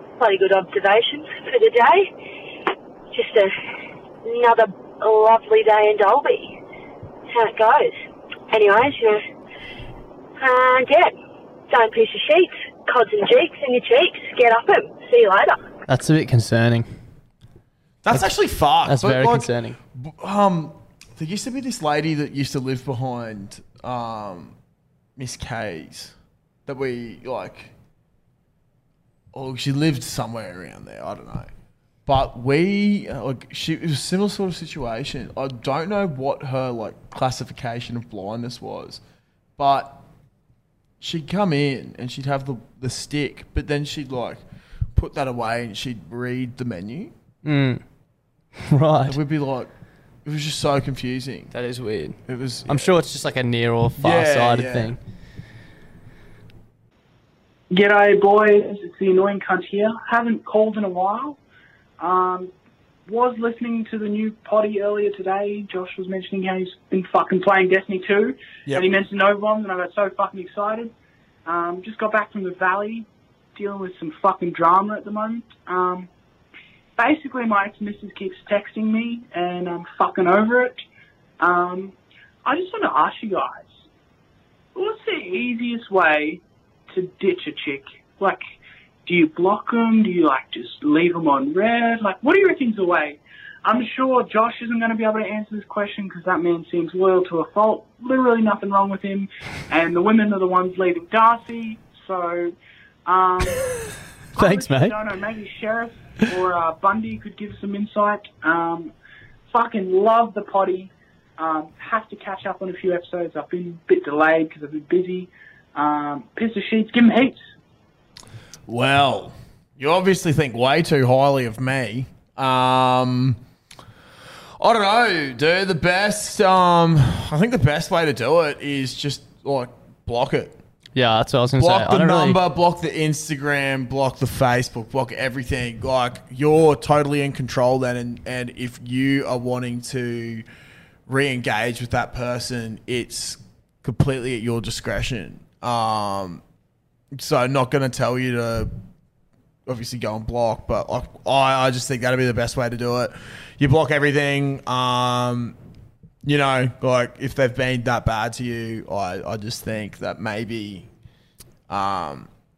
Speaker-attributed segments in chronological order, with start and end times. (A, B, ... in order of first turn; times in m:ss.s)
0:00.2-0:02.1 A
0:03.1-0:03.5 A
0:04.2-0:06.6 A
0:07.3-0:09.2 A
0:10.4-0:11.2 A
0:11.7-0:15.6 A
0:15.9-0:16.9 B
0:18.0-0:24.5 C
0:18.8-0:19.8 B
0:25.2-0:26.1 C
0:26.7-0:27.7 C
0:29.3-0:31.5 C
0:32.0-0:39.0 C
0:39.6-0:40.0 C
0:41.0-0:44.4 C
0:44.9-0:47.1 C
0:47.4-0:47.8 B
0:48.6-0:49.2 B
0:49.0-0:49.7 C
0:50.2-0:51.5 C
0:51.5-0:55.0 B
0:52.2-0:52.9 C
0:54.0-0:55.0 C
0:57.7-1:01.4 D
1:02.0-1:02.5 D
1:03.1-1:10.9 D
1:11.4-1:16.1 D
1:17.0-1:20.8 D
1:21.4-1:23.8 D
1:24.7-1:28.4 D
1:29.0-1:42.5 D
1:43.0-1:43.6 D
1:44.3-1:48.9 D
1:44.4-1:45.0 B
1:49.5-1:57.4 D
1:58.7-2:03.4 C
2:04.6-2:10.6 C
2:10.9-2:12.4 B
2:11.6-2:20.4 C
2:21.1-2:26.4 C
2:27.1-2:28.7 C
2:29.7-2:35.6 C
2:36.2-2:40.9 C
2:41.7-2:42.3 C